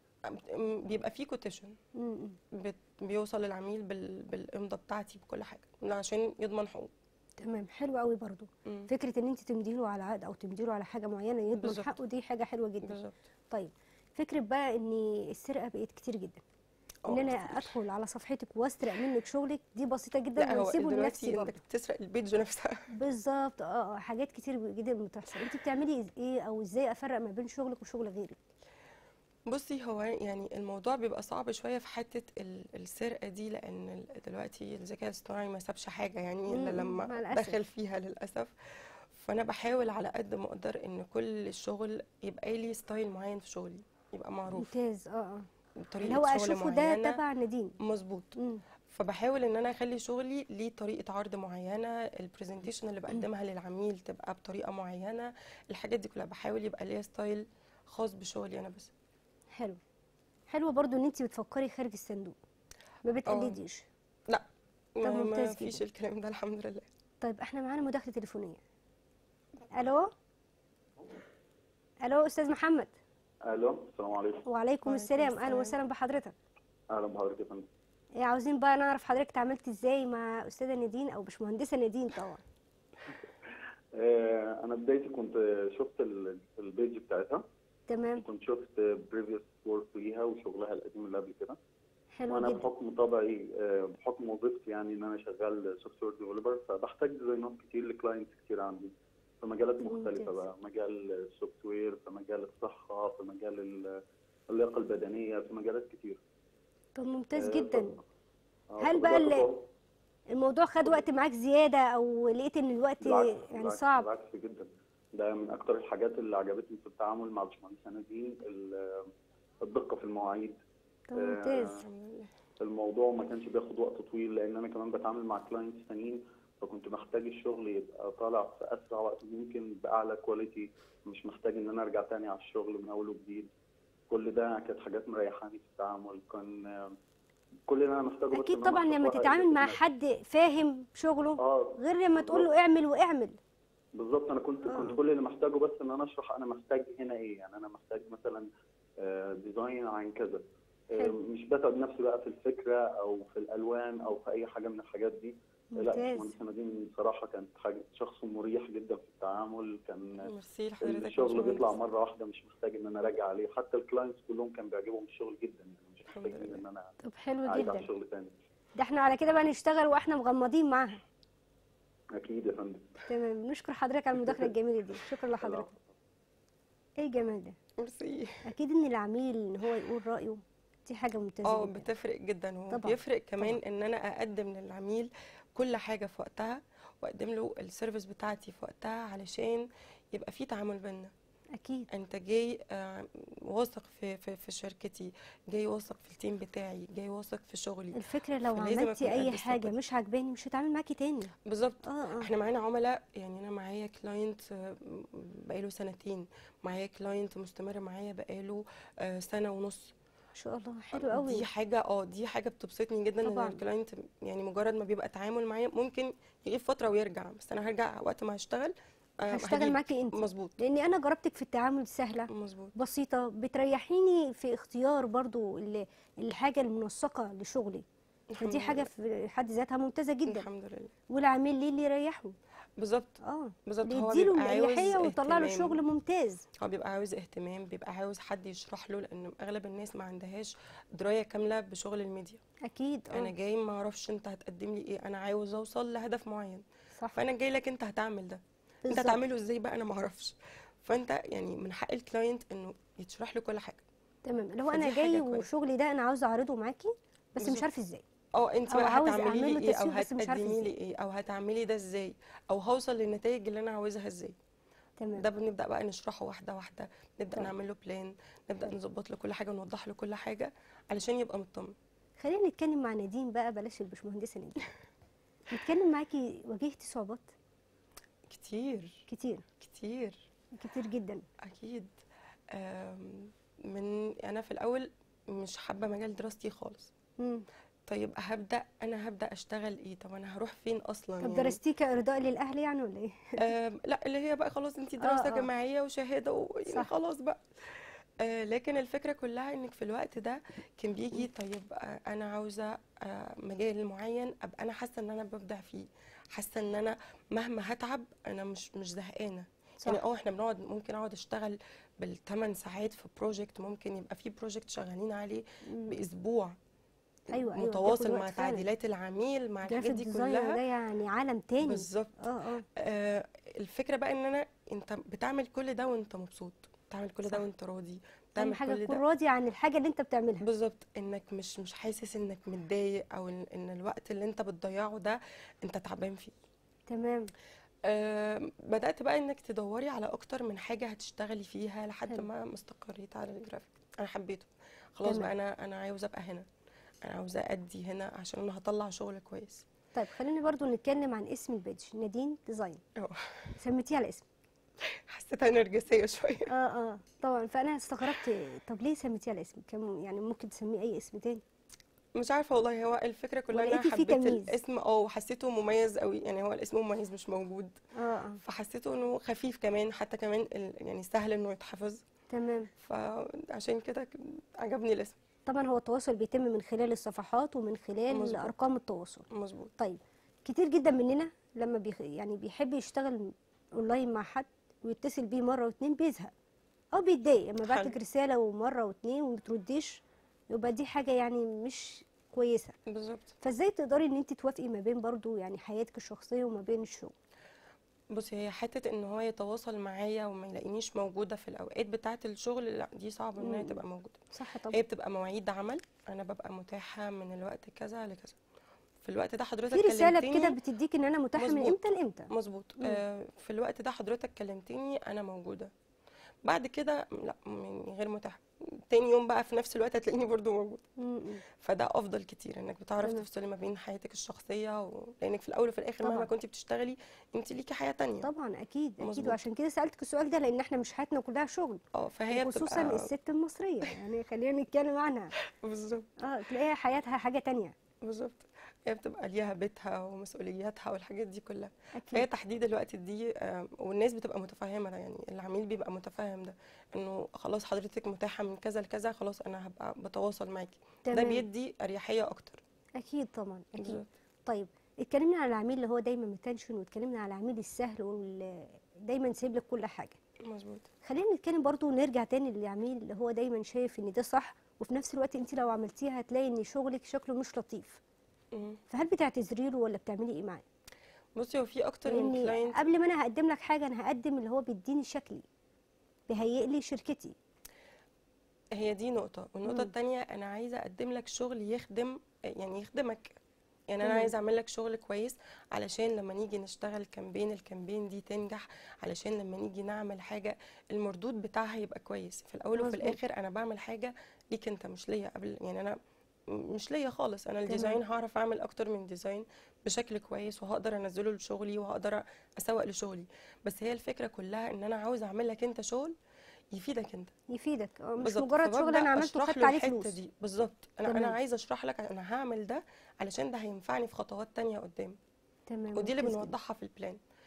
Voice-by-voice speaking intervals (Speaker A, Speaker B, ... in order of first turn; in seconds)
Speaker A: 0.3-1.8, 2.5-6.9, 11.6-12.0, 12.8-13.2, 17.1-17.8, 20.4-22.9, 29.5-44.7, 45.8-47.2, 47.8-48.4, 48.9-58.9, 63.3-63.6, 65.0-66.9, 74.8-75.8, 121.8-122.3, 160.2-161.8, 166.1-166.6, 177.8-178.4, 181.4-191.1, 191.9-199.8, 201.4-209.9, 210.9-220.6, 222.3-222.7, 228.3-228.9, 230.3-230.9, 232.8-235.8, 236.6-242.4, 243.1-253.8, 254.7-255.5, 257.4-257.7, 258.4-264.4, 265.1-271.8, 278.3-279.1, 279.6-280.2, 281.4-281.9, 282.5-286.9, 287.9-291.6, 293.4-316.6, 317.3-320.6, 321.6-322.2, 322.8-329.0, 330.4-336.3, 337.9-346.5, 347.0-349.7, 353.0-353.6, 354.8-356.5, 362.2-367.8, 368.4-372.1, 372.8-375.2, 378.1-378.5, 379.3-379.7, 387.6-387.9, 392.9-393.3, 398.1-408.4, 409.0-410.6, 411.4-411.8, 412.3-415.7, 416.4-420.8, 421.6-428.3, 429.0-429.4, 431.9-433.1, 435.5-436.1, 438.0-452.6, 453.8-454.1, 460.4-460.9, 468.5-468.8, 471.4-472.8, 478.7-483.3, 483.9-496.0, 496.5-506.1, 506.7-507.3, 508.2-515.2, 516.0-517.2
Speaker B: 2.0-2.4, 7.4-13.0, 13.5-16.4, 17.1-21.6, 22.9-28.4, 36.5-37.6, 44.5-45.5, 46.0-47.8, 48.4-48.6, 60.5-62.4, 63.0-63.9, 65.0-65.8, 67.2-68.6, 69.7-70.1, 72.0-72.9, 74.5-76.3, 78.2-82.4, 87.9-88.2, 92.2-92.7, 99.8-100.3, 107.0-108.0, 108.8-109.5, 110.3-114.1, 121.1-121.8, 138.3-143.4, 144.7-145.0, 155.7-156.3, 167.0-167.9, 168.8-171.0, 173.1-175.7, 177.0-177.6, 178.4-181.9, 182.7-183.6, 191.6-191.9, 197.9-201.3, 201.8-202.3, 210.4-211.5, 213.2-213.6, 219.3-227.8, 228.4-230.5, 231.1-232.4, 233.2-236.4, 242.6-243.3, 248.8-249.2, 254.3-258.0, 258.7-260.7, 265.0-265.3, 272.2-274.7, 275.5-277.3, 279.1-279.5, 280.5-281.2, 287.2-287.5, 291.2-293.4, 295.0-295.5, 315.7-316.0, 317.3-318.6, 319.7-322.6, 328.4-330.4, 336.9-337.3, 345.1-345.3, 349.9-352.8, 353.6-354.3, 356.5-361.4, 363.5-364.6, 368.0-368.4, 372.3-372.7, 375.5-379.3, 379.8-386.3, 386.9-392.8, 393.4-397.1, 403.4-403.8, 404.3-404.8, 409.7-413.0, 421.0-421.4, 426.0-426.3, 428.2-435.3, 436.2-437.8, 441.9-442.3, 451.1-451.4, 453.0-460.2, 461.0-468.0, 468.9-470.6, 472.1-475.4, 476.3-477.4, 484.0-484.3, 492.8-493.2, 497.7-498.0, 507.5-510.2, 511.1-511.4, 515.7-516.5
Speaker C: 73.5-74.4, 76.9-77.7, 84.0-87.5, 88.2-91.6, 92.3-106.2, 107.4-108.0, 108.8-109.6, 113.0-119.1, 119.6-120.6, 121.2-121.8, 122.6-133.5, 134.1-136.9, 137.7-139.8, 141.4-142.5, 144.0-148.5, 149.0-150.4, 151.0-160.3, 160.8-166.9, 167.4-168.3, 172.2-172.8, 175.4-175.8